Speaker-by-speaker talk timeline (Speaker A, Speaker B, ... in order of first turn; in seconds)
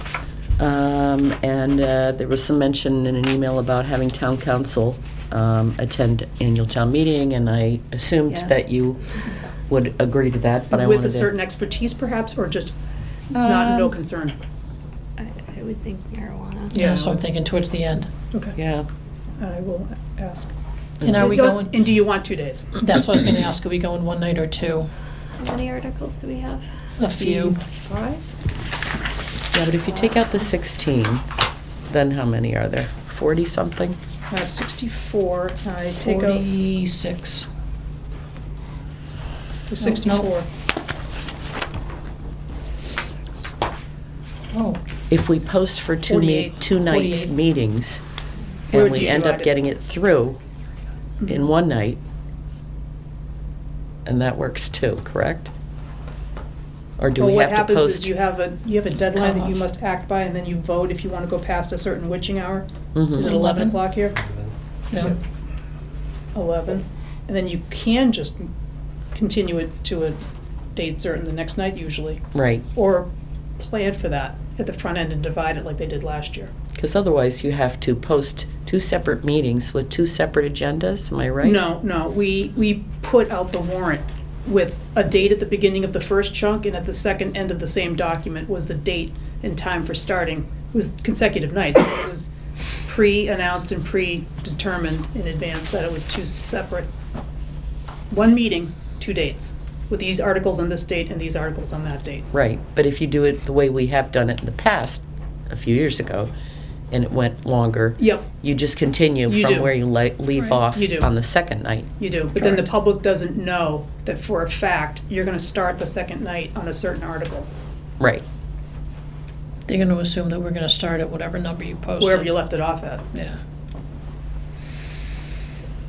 Speaker A: 0.6-9.2, 9.7-11.3, 13.3-13.9, 18.6-18.9, 21.0-21.3, 29.5-31.2, 31.9-34.0, 45.1-48.0, 48.7-50.4, 51.3-52.0, 54.1-55.5, 57.0-58.1, 63.0-63.3, 72.3-72.7, 76.8-81.6, 102.3-106.3, 106.9-112.6
Speaker B: 8.3-8.7, 15.2-16.8, 25.4-27.6
Speaker C: 10.7-12.8, 13.4-14.4, 16.7-17.2, 19.4-20.5, 21.1-22.7, 27.3-28.2, 34.3-36.5, 39.7-40.5, 46.0-46.8, 48.7-49.5, 57.2-64.2, 66.3-68.5, 69.2-70.2, 70.8-72.2, 72.7-76.5, 81.4-92.3, 92.9-96.9, 98.1-102.3, 108.0-108.3, 109.3-109.7, 110.4-111.1, 112.0-117.5, 122.0-123.0
Speaker D: 16.7-18.1, 21.0-21.9, 22.8-24.9, 27.0-27.6, 36.0-37.5, 39.8-40.3, 44.5-44.8, 46.8-47.3, 59.1-59.6, 63.2-63.9, 64.9-65.2, 119.7-122.3, 123.1-123.4